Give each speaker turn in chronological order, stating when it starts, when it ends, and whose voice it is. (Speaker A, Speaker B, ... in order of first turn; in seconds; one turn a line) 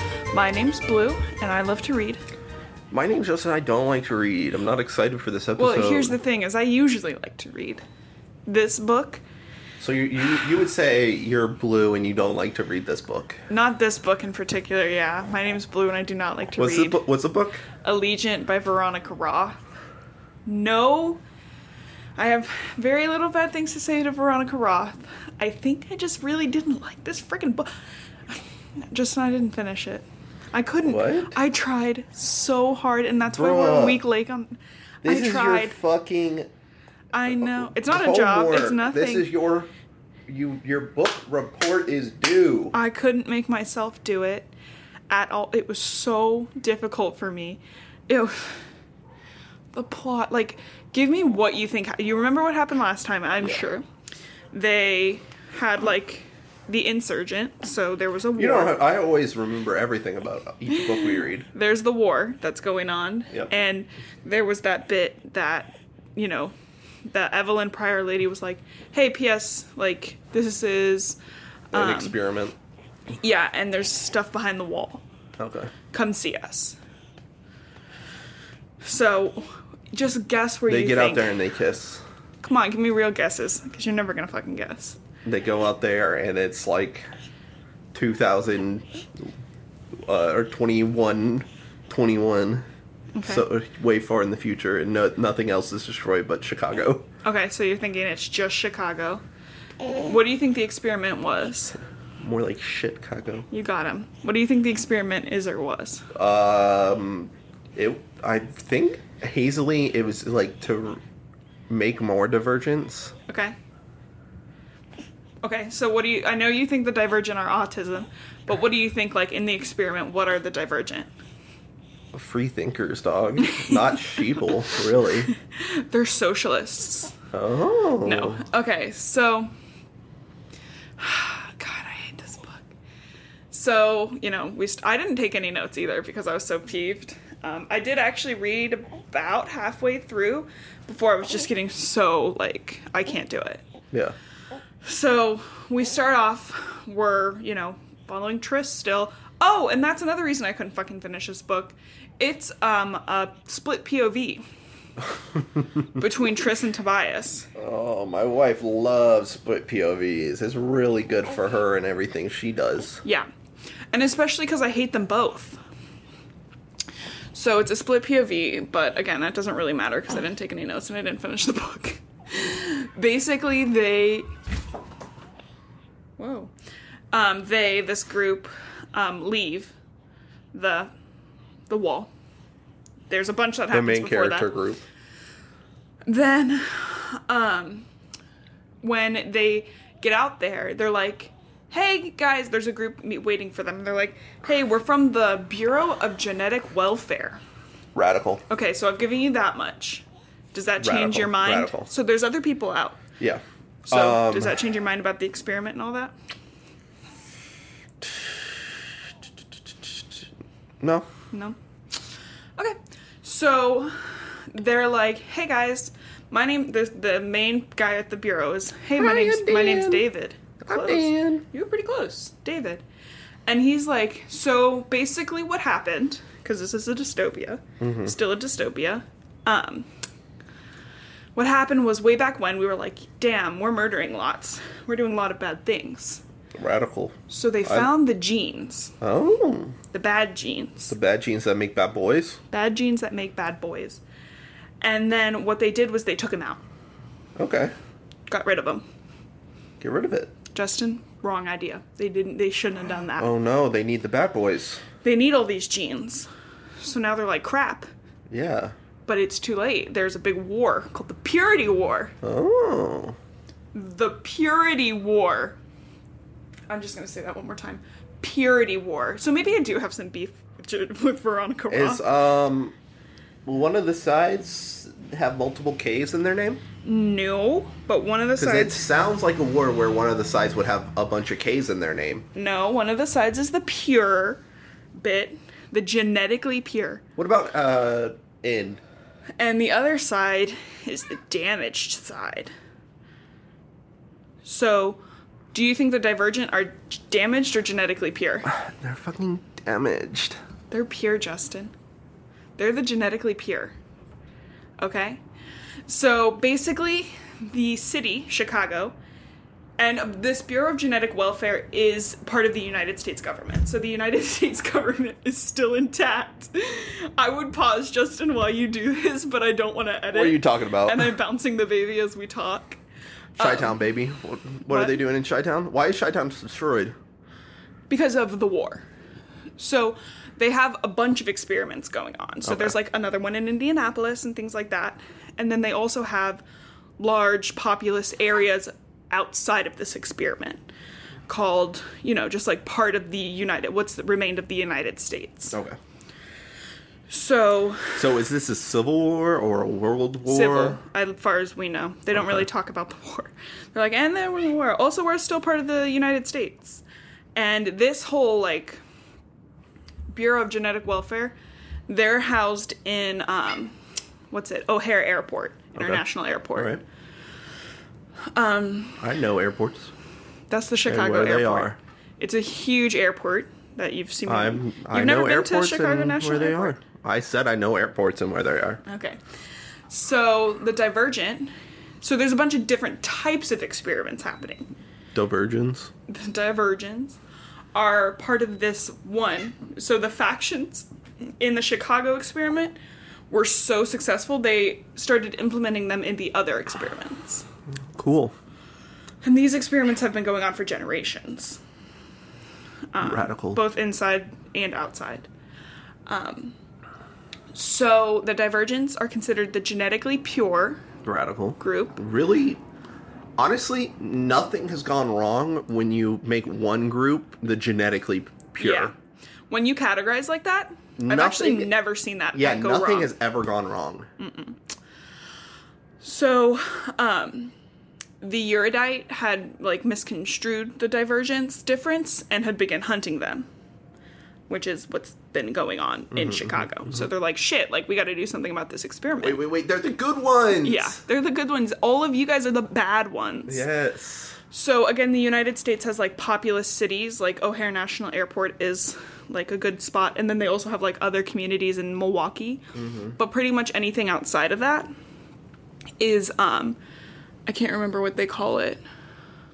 Speaker A: 0.3-2.2
Speaker B: 2.9-6.2
Speaker A: 5.6-7.8
Speaker A: 8.4-9.2
Speaker B: 9.8-13.4
Speaker A: 13.5-17.0
Speaker B: 16.6-17.6
Speaker A: 17.8-19.6
Speaker A: 20.4-21.2
Speaker A: 22.2-27.7
Speaker A: 28.3-35.8
Speaker B: 30.8-31.4
Speaker B: 33.3-34.0
Speaker B: 35.0-36.5
Speaker A: 37.1-39.3
Speaker B: 37.3-39.7
Speaker B: 40.3-42.7
Speaker A: 42.7-44.5
Speaker A: 45.1-48.6
Speaker A: 49.7-53.8
Speaker A: 54.5-58.8
Speaker B: 58.4-61.5
Speaker A: 61.5-66.5
Speaker A: 67.1-71.2
Speaker B: 71.7-72.5
Speaker A: 71.7-72.2
Speaker A: 73.1-75.0
Speaker B: 75.4-75.7
Speaker A: 75.9-76.8
Speaker A: 78.8-81.3
Speaker B: 80.7-82.0
Speaker A: 82.4-85.0
Speaker B: 85.2-87.0
Speaker B: 87.9-89.3
Speaker B: 90.0-92.6
Speaker A: 93.2-93.4
Speaker B: 93.2-97.0
Speaker A: 97.2-99.2
Speaker A: 99.9-101.8
Speaker B: 102.2-103.5
Speaker A: 103.5-106.1
Speaker B: 106.1-111.0
Speaker B: 111.7-113.1
Speaker A: 113.3-113.5
Speaker A: 115.4-121.1
Speaker B: 122.1-125.3
Speaker A: 123.4-124.2
Speaker A: 125.3-127.1
Speaker B: 127.3-128.4
Speaker A: 128.0-129.5
Speaker A: 131.0-132.7
Speaker A: 133.5-143.6
Speaker A: 144.8-154.4
Speaker A: 155.8-157.5
Speaker B: 157.6-163.0
Speaker A: 163.9-165.6
Speaker A: 167.3-174.3
Speaker A: 176.2-176.5
Speaker A: 177.1-179.7
Speaker A: 180.5-180.9
Speaker A: 181.7-182.1
Speaker A: 183.1-184.5
Speaker B: 183.7-184.8
Speaker A: 186.1-187.9
Speaker A: 188.8-197.4
Speaker B: 197.9-198.4
Speaker A: 198.5-203.0
Speaker B: 200.8-201.9
Speaker B: 203.2-204.6
Speaker A: 203.9-206.1
Speaker B: 208.0-208.5
Speaker B: 210.8-211.1
Speaker A: 211.3-211.6
Speaker A: 212.6-222.8
Speaker B: 218.9-220.0
Speaker B: 220.6-221.4
Speaker A: 223.5-229.9
Speaker B: 227.8-228.1
Speaker A: 231.3-236.2
Speaker B: 236.5-237.9
Speaker A: 237.3-238.9
Speaker B: 239.0-239.7
Speaker A: 239.9-240.9
Speaker B: 240.9-242.4
Speaker A: 242.5-244.0
Speaker A: 244.8-246.6
Speaker B: 247.3-247.7
Speaker A: 248.3-248.8
Speaker B: 249.8-250.3
Speaker A: 250.5-253.3
Speaker B: 253.2-254.8
Speaker A: 255.0-256.3
Speaker A: 256.8-257.9
Speaker B: 258.3-258.7
Speaker A: 259.1-262.1
Speaker B: 262.2-263.1
Speaker A: 263.7-265.6
Speaker A: 266.7-272.0
Speaker B: 271.7-272.7
Speaker B: 273.4-276.6
Speaker A: 276.8-278.8
Speaker B: 278.4-282.3
Speaker A: 282.3-284.4
Speaker A: 284.9-287.0
Speaker B: 287.2-288.8
Speaker A: 289.4-292.5
Speaker A: 294.4-295.0
Speaker A: 295.5-298.5
Speaker B: 298.4-300.4
Speaker A: 300.7-301.7
Speaker A: 302.6-303.8
Speaker A: 304.8-305.2
Speaker A: 305.9-308.9
Speaker A: 309.8-322.8
Speaker B: 320.1-321.1
Speaker A: 323.4-323.8
Speaker B: 323.4-326.9
Speaker A: 324.7-325.0
Speaker A: 327.9-328.8
Speaker A: 329.6-336.4
Speaker B: 332.4-332.7
Speaker A: 337.0-340.6
Speaker A: 341.3-345.6
Speaker B: 345.5-345.8
Speaker A: 347.1-348.0
Speaker B: 347.9-350.8
Speaker A: 350.2-356.8
Speaker A: 357.3-358.8
Speaker A: 360.1-361.4
Speaker A: 361.9-363.7
Speaker A: 364.3-366.8
Speaker B: 365.8-366.0
Speaker B: 366.5-366.8
Speaker A: 368.3-369.0
Speaker B: 369.0-369.9
Speaker A: 370.5-376.8
Speaker B: 370.9-371.8
Speaker B: 374.3-378.8
Speaker A: 378.8-379.2
Speaker A: 379.9-384.7
Speaker B: 385.1-385.9
Speaker A: 386.1-387.2
Speaker A: 387.7-390.9
Speaker A: 391.4-392.8
Speaker A: 393.3-397.4
Speaker B: 397.9-398.3
Speaker A: 399.2-401.6
Speaker A: 402.9-405.3
Speaker B: 403.0-403.6
Speaker A: 406.1-406.5
Speaker A: 407.5-410.9
Speaker B: 411.0-412.6
Speaker A: 411.6-412.0
Speaker B: 413.4-418.9
Speaker A: 418.6-418.9
Speaker A: 419.5-423.1
Speaker B: 421.0-421.7
Speaker B: 422.3-424.1
Speaker A: 424.2-424.6
Speaker A: 426.0-427.5
Speaker A: 428.2-433.5
Speaker A: 434.5-439.4
Speaker B: 436.1-436.7
Speaker B: 439.2-441.0
Speaker A: 440.6-443.6
Speaker B: 443.5-444.4
Speaker A: 444.5-454.9
Speaker B: 452.7-453.2
Speaker A: 456.0-456.8
Speaker A: 457.4-458.8